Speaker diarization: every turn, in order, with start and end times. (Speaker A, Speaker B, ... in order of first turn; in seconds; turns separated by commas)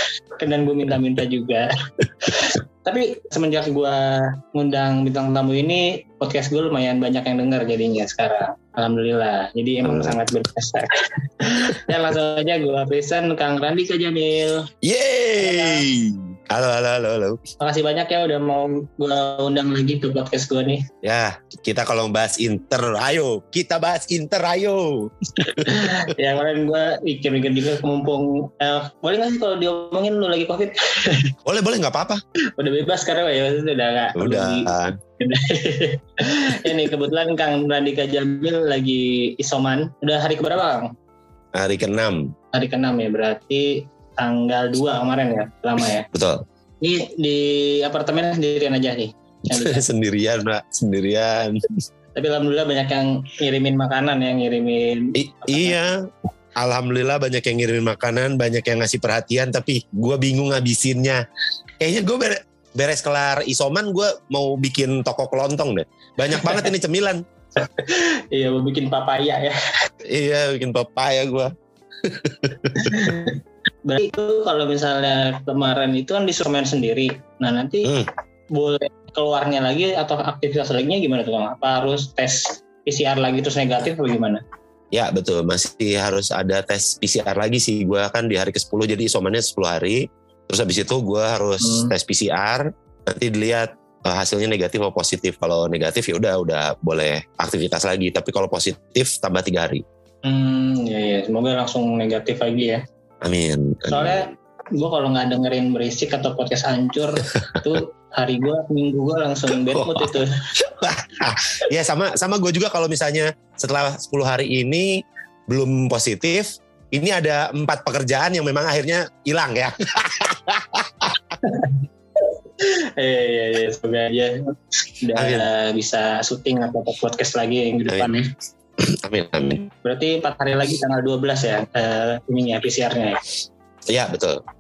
Speaker A: 0.4-1.7, Speaker A: 2.2-14.7, Speaker B: 9.8-10.2, Speaker B: 14.8-17.4, Speaker A: 15.4-15.8, Speaker A: 17.6-20.9, Speaker B: 21.0-26.1, Speaker A: 25.4-31.3, Speaker B: 31.5-32.2, Speaker A: 32.6-40.9, Speaker B: 34.2-35.0, Speaker B: 41.5-42.3, Speaker A: 42.5-46.1, Speaker B: 46.1-46.4, Speaker A: 46.8-49.8, Speaker B: 49.5-51.8, Speaker A: 52.2-55.8, Speaker B: 55.2-56.0, Speaker B: 56.6-61.2, Speaker B: 61.8-67.2, Speaker A: 66.3-66.7, Speaker A: 67.6-69.6, Speaker B: 70.0-73.1, Speaker A: 72.8-77.9, Speaker A: 78.5-84.4, Speaker B: 84.9-99.8, Speaker A: 91.6-91.9, Speaker A: 100.2-102.8, Speaker B: 103.2-104.3, Speaker A: 103.9-110.3, Speaker B: 107.4-107.7, Speaker B: 109.5-121.2, Speaker A: 121.4-124.5, Speaker A: 125.0-128.3, Speaker B: 125.2-125.5, Speaker B: 128.8-129.7, Speaker A: 129.8-133.2, Speaker B: 133.9-134.4